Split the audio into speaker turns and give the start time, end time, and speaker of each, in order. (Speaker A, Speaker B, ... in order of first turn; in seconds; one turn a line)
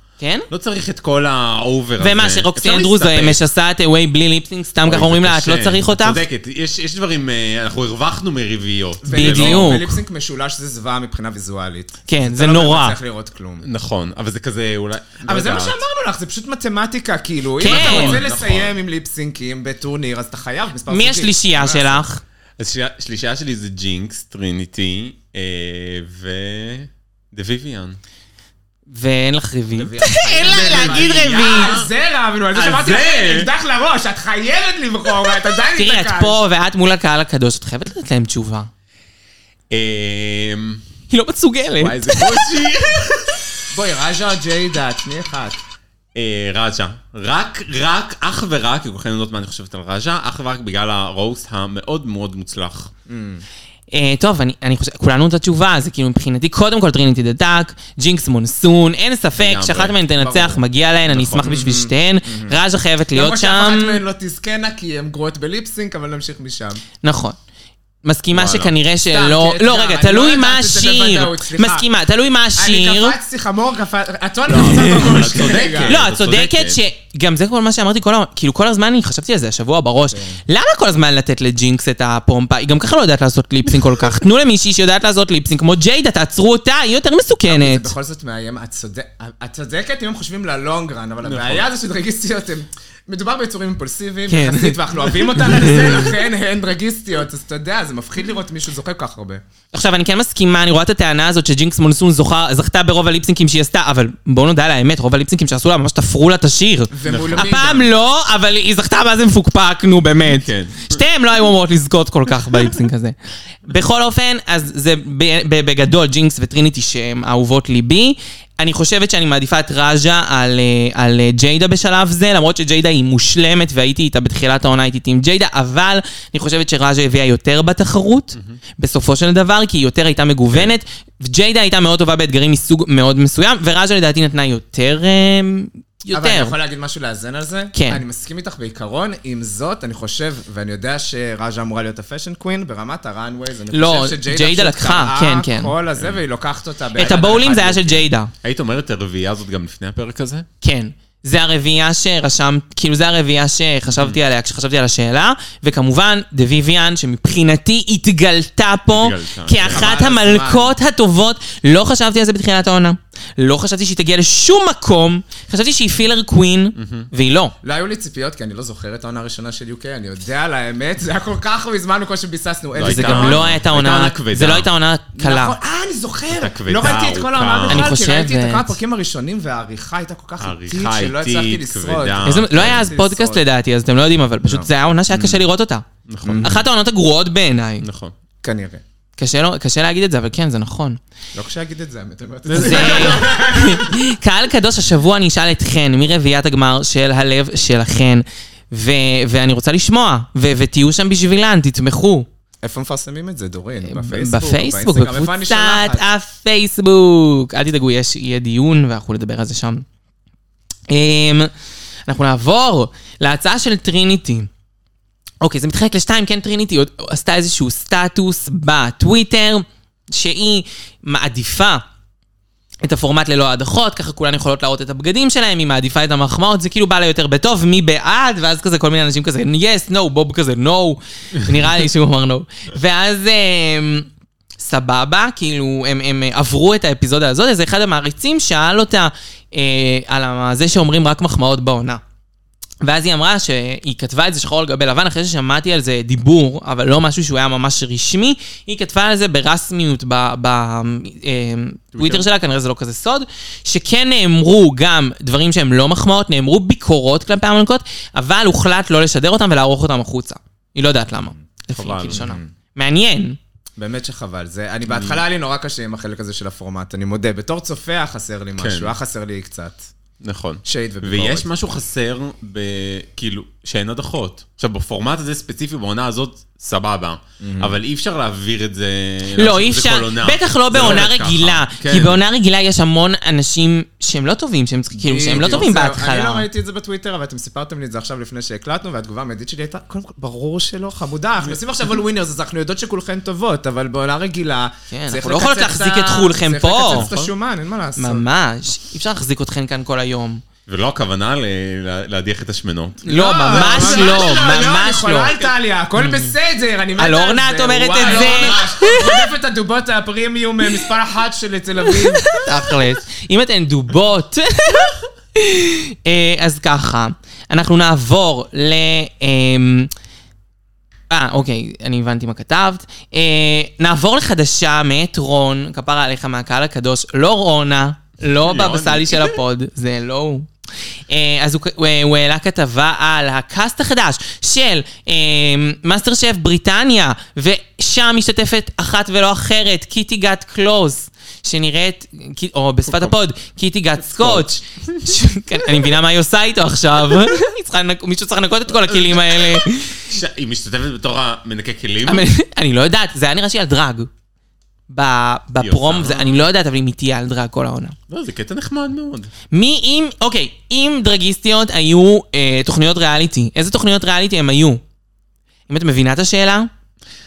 Speaker A: 0.2-0.5
Speaker B: 0.5-3.4
Speaker A: 2.0-6.2
Speaker B: 4.8-9.8
Speaker C: 9.0-13.7
Speaker A: 9.1-9.9
Speaker A: 12.1-13.0
Speaker B: 13.6-15.8
Speaker C: 15.2-22.0
Speaker A: 17.6-18.2
Speaker B: 17.6-18.7
Speaker A: 20.9-22.2
Speaker B: 22.6-28.0
Speaker A: 28.9-31.7
Speaker C: 29.8-36.4
Speaker B: 30.4-31.9
Speaker B: 32.5-33.5
Speaker A: 35.8-38.7
Speaker B: 39.7-40.8
Speaker A: 41.1-42.4
Speaker B: 41.8-43.4
Speaker C: 43.7-45.6
Speaker B: 46.1-52.9
Speaker C: 53.1-53.4
Speaker A: 53.9-64.0
Speaker B: 59.4-60.0
Speaker C: 60.2-60.6
Speaker B: 61.1-61.5
Speaker C: 61.4-62.6
Speaker C: 63.1-66.8
Speaker A: 67.0-67.4
Speaker A: 68.0-73.2
Speaker B: 68.3-68.7
Speaker C: 69.1-71.9
Speaker C: 72.6-76.0
Speaker A: 74.5-75.2
Speaker B: 74.7-76.8
Speaker A: 75.8-87.9
Speaker C: 80.1-80.4
Speaker C: 87.5-99.4
Speaker B: 91.2-91.7
Speaker A: 94.3-94.8
Speaker A: 95.4-96.1
Speaker A: 99.7-113.2
Speaker C: 106.9-107.9
Speaker B: 107.0-107.6
Speaker B: 110.3-111.0
Speaker A: 113.7-136.6
Speaker B: 128.3-128.6
Speaker C: 136.1-148.0
Speaker A: 137.7-138.0
Speaker A: 143.7-145.7
Speaker A: 146.9-148.3
Speaker B: 148.4-150.5
Speaker A: 150.6-167.6
Speaker B: 153.9-154.2
Speaker B: 158.9-159.9
Speaker C: 159.6-160.7
Speaker B: 166.8-167.1
Speaker C: 167.6-173.5
Speaker B: 172.8-174.7
Speaker A: 172.8-175.6
Speaker C: 175.2-183.4
Speaker B: 176.3-177.9
Speaker A: 177.7-178.8
Speaker B: 180.4-182.9
Speaker A: 182.2-185.9
Speaker C: 184.4-185.4
Speaker B: 186.1-186.6
Speaker C: 186.2-186.7
Speaker A: 186.4-187.9
Speaker B: 187.8-188.1
Speaker C: 188.4-188.8
Speaker A: 189.2-191.0
Speaker C: 191.3-194.0
Speaker B: 192.4-193.4
Speaker A: 192.6-202.3
Speaker C: 202.6-206.0
Speaker A: 203.9-209.8
Speaker A: 210.9-211.5
Speaker A: 212.1-214.5
Speaker A: 215.4-221.8
Speaker A: 222.8-242.0
Speaker A: 242.8-263.4
Speaker B: 252.0-252.3
Speaker B: 261.7-262.3
Speaker C: 262.1-262.5
Speaker C: 263.8-269.9
Speaker B: 268.6-268.9
Speaker B: 270.2-282.2
Speaker C: 270.6-271.5
Speaker C: 277.4-277.7
Speaker A: 279.4-286.5
Speaker C: 280.7-281.1
Speaker C: 284.9-298.3
Speaker A: 294.9-297.1
Speaker B: 296.9-297.3
Speaker A: 298.0-300.4
Speaker B: 300.7-304.3
Speaker A: 303.1-305.3
Speaker C: 303.1-312.4
Speaker A: 307.0-309.0
Speaker B: 308.0-308.8
Speaker A: 312.3-319.9
Speaker A: 321.1-330.5
Speaker B: 328.4-329.4
Speaker A: 331.1-350.1
Speaker B: 342.9-343.2
Speaker B: 344.1-345.2
Speaker B: 348.7-352.3
Speaker A: 352.1-354.1
Speaker A: 354.9-357.9
Speaker B: 355.6-356.5
Speaker B: 358.1-359.3
Speaker A: 359.5-364.8
Speaker A: 365.7-366.7